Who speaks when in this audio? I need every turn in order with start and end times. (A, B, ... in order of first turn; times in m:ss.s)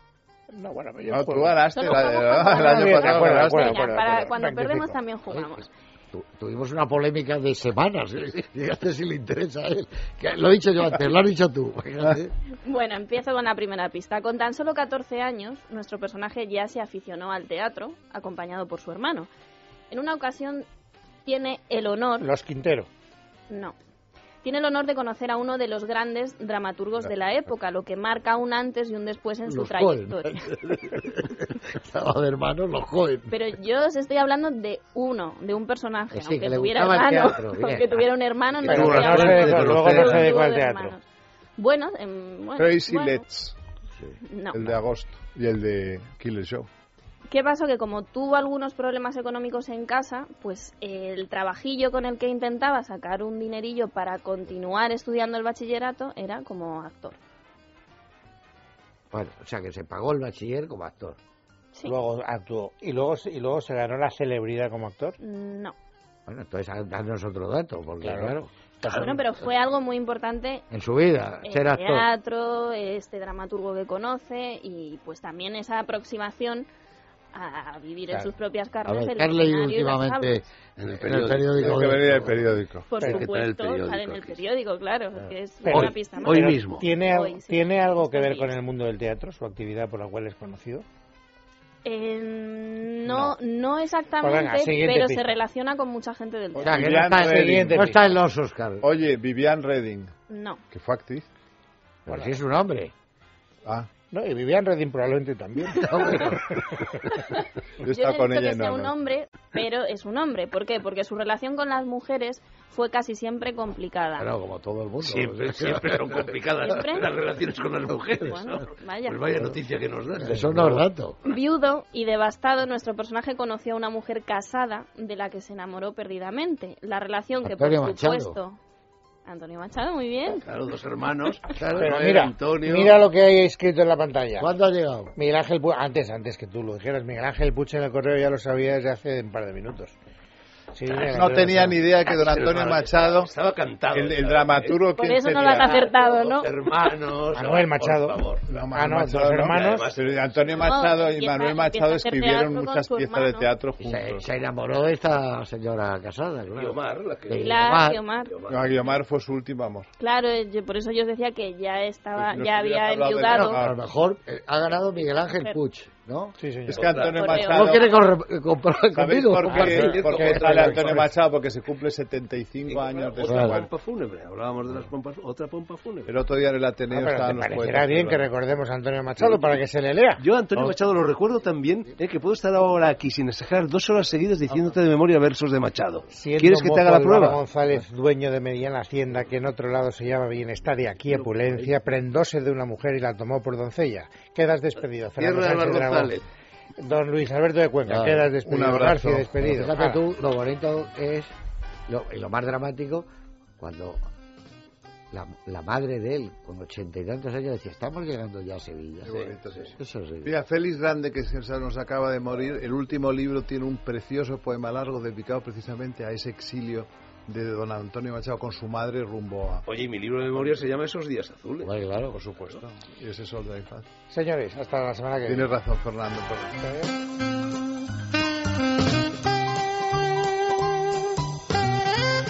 0:00.5-0:01.6 A
0:01.1-0:03.9 B
0:01.7-0:05.7 C
0:02.5-0:05.0 A
0:05.3-0:12.3 D
0:12.6-0:19.3 C
0:19.9-0:20.6 C
0:21.2-0:22.3 C
0:22.2-0:22.9 A
0:23.5-0:23.7 C
0:24.4-0:30.4 C
0:29.4-0:33.4 D
0:33.3-0:41.0 C
0:36.1-0:38.1 D
0:38.6-0:41.0 A
0:38.6-0:40.2 E
0:41.6-0:43.2 C
0:42.6-0:43.5 B
0:43.9-0:44.2 D
0:44.3-0:44.6 C
0:44.5-0:46.7 B
0:47.3-0:57.2 C
0:59.1-1:01.2 D
1:01.8-1:05.2 A
1:05.2-1:05.7 C
1:06.3-1:08.5 D
1:08.0-1:09.2 A
1:08.8-1:10.6 C
1:08.9-1:09.1 E
1:10.7-1:12.1 D
1:11.4-1:16.7 C
1:17.3-1:20.4 C
1:18.8-1:22.3 D
1:20.8-1:22.4 E
1:21.6-1:22.9 B
1:22.9-1:28.5 C
1:23.0-1:24.4 E
1:25.6-1:30.8 A
1:25.7-1:26.8 E
1:31.8-1:36.9 C
1:33.0-1:33.4 B
1:34.2-1:35.4 A
1:36.6-1:38.1 A
1:36.6-1:38.8 D
1:36.7-1:37.9 B
1:38.8-1:40.1 B
1:40.3-1:40.6 C
1:40.7-1:41.2 B
1:42.0-1:42.9 D
1:42.1-1:42.4 A
1:44.1-1:46.9 A
1:45.7-1:46.5 D
1:47.8-1:48.9 B
1:47.8-1:54.3 C
1:54.2-1:56.4 D
1:55.0-2:00.8 E
1:56.6-1:57.1 C
1:58.1-1:59.4 C
2:00.2-2:01.2 D
2:01.2-2:08.6 C
2:07.4-2:08.4 D
2:09.2-2:10.4 C
2:10.4-2:12.9 E
2:11.6-2:11.9 D
2:11.7-2:14.5 A
2:14.4-2:15.1 D
2:15.1-2:19.9 A
2:20.7-2:21.8 A
2:20.9-2:21.2 E
2:21.1-2:23.3 B
2:22.0-2:24.8 E
2:23.9-2:25.8 B
2:24.9-2:26.5 C
2:25.6-2:28.4 E
2:27.3-2:28.2 A
2:28.5-2:34.2 B
2:28.7-2:29.9 A
2:29.5-2:30.4 E
2:30.6-2:33.5 C
2:33.8-2:38.0 D
2:36.5-2:39.0 E
2:37.3-2:38.4 C
2:38.5-2:39.9 B
2:40.0-2:43.6 C
2:42.2-2:43.8 B
2:43.3-2:46.4 D
2:45.1-2:45.6 C
2:46.4-2:46.9 A
2:46.7-2:47.9 B
2:46.7-2:47.6 E
2:46.9-2:47.9 C
2:47.4-2:49.9 D
2:48.9-2:53.7 B
2:49.5-2:51.1 A
2:49.5-2:51.0 E
2:52.6-2:56.2 E
2:53.2-2:53.6 D
2:56.0-2:58.3 B
2:56.9-3:00.7 A
2:59.2-2:59.6 E
3:00.2-3:07.4 E
3:06.1-3:16.2 A
3:11.0-3:12.0 E
3:15.2-3:16.2 E
3:16.8-3:20.0 A
3:17.9-3:18.3 D
3:18.4-3:19.3 B
3:19.4-3:21.3 D
3:21.9-3:23.1 D
3:23.6-3:24.0 D
3:25.1-3:29.2 D
3:29.0-3:39.7 B
3:29.2-3:29.6 E
3:29.8-3:30.4 D
3:39.6-3:42.6 E
3:40.3-3:40.6 B
3:41.6-3:42.2 D
3:42.4-3:43.8 B
3:44.1-3:45.6 A
3:45.2-3:46.6 B
3:46.6-3:46.9 A